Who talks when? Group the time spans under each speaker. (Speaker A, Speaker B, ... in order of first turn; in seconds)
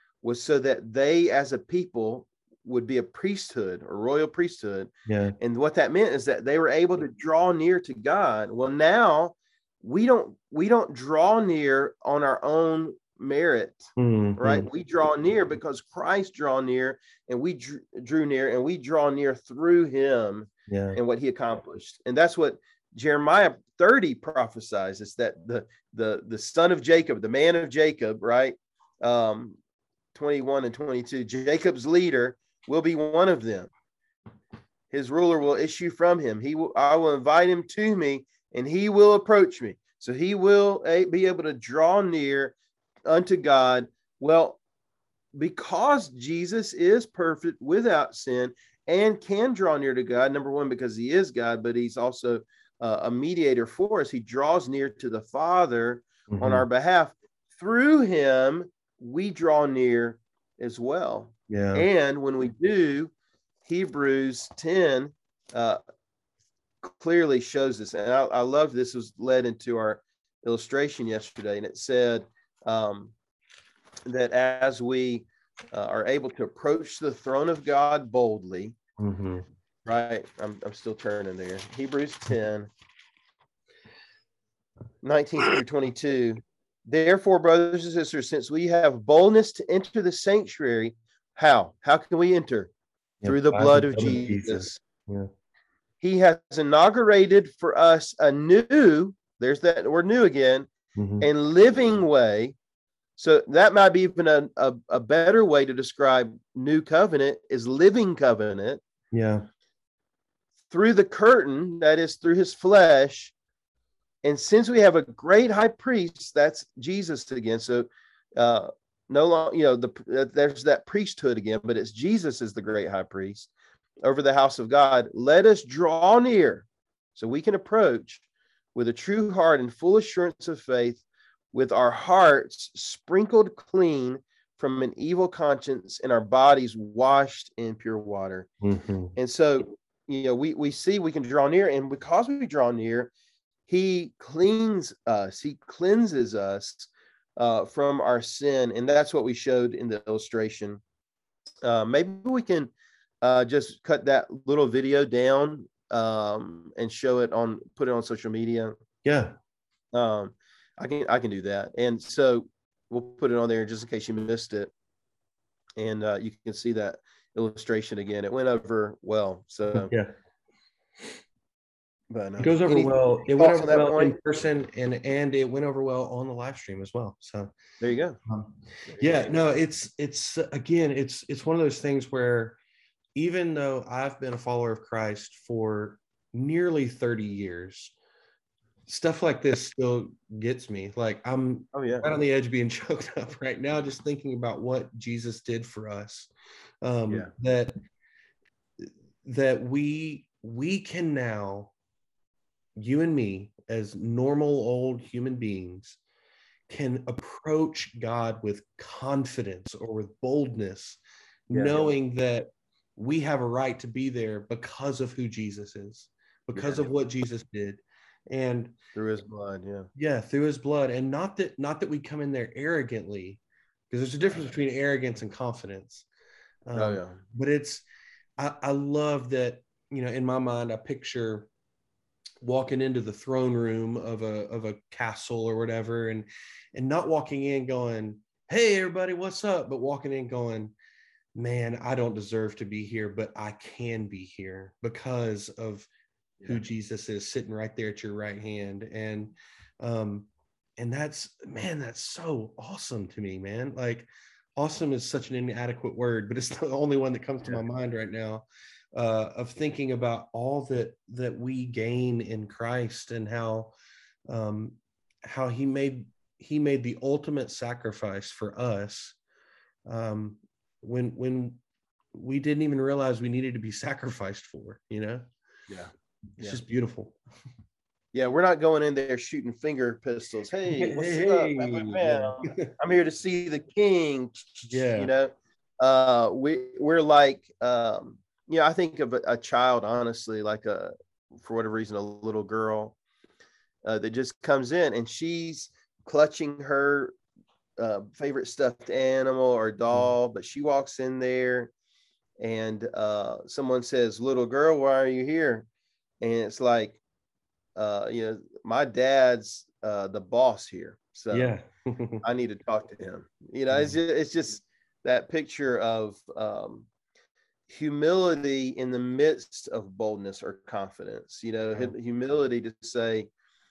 Speaker A: 0.2-29.6, 30.1-33.7, 34.9-42.5, 43.1-44.6, 45.3-63.1, 63.6-65.8, 66.8-73.1, 74.1-78.8, 79.8-82.7, 85.0-92.7, 93.2-94.8, 96.0-100.7, 101.2-102.6, 103.2-108.8, 110.7-113.3, 114.2-123.5, 124.0-138.5, 139.2-143.1, 143.7-150.8, 151.6-152.7, 153.2-158.7, 159.9-164.7, 165.8-169.9, 172.1-174.2, 177.8-178.2, 178.9-179.3, 191.7-192.1, 211.5-211.9, 216.6-216.9, 218.9-219.9, 226.7-227.2, 275.7-276.6, 278.1-293.0, 293.9-297.2, 297.8-301.7, 302.4-305.7, 306.2-307.0, 307.8-311.5, 312.2-316.9, 317.7-323.3
Speaker B: 5.1-5.3, 14.0-14.7, 20.7-21.0, 56.3-56.6, 61.5-61.9, 79.0-79.5, 93.2-95.3, 101.0-101.3, 109.1-109.4, 138.6-139.1, 159.0-159.3, 169.7-170.1, 172.4-177.5, 178.3-182.6, 183.2-187.9, 188.9-196.3, 196.8-197.8, 198.8-201.7, 202.8-206.0, 206.7-218.8, 219.9-226.1, 226.7-227.8, 228.4-231.5, 232.4-240.8, 241.3-245.9, 246.4-263.7, 264.3-269.1, 269.9-271.6, 272.1-275.3, 276.4-277.1, 280.7-282.7, 284.7-285.1, 311.3-312.2, 313.7-314.0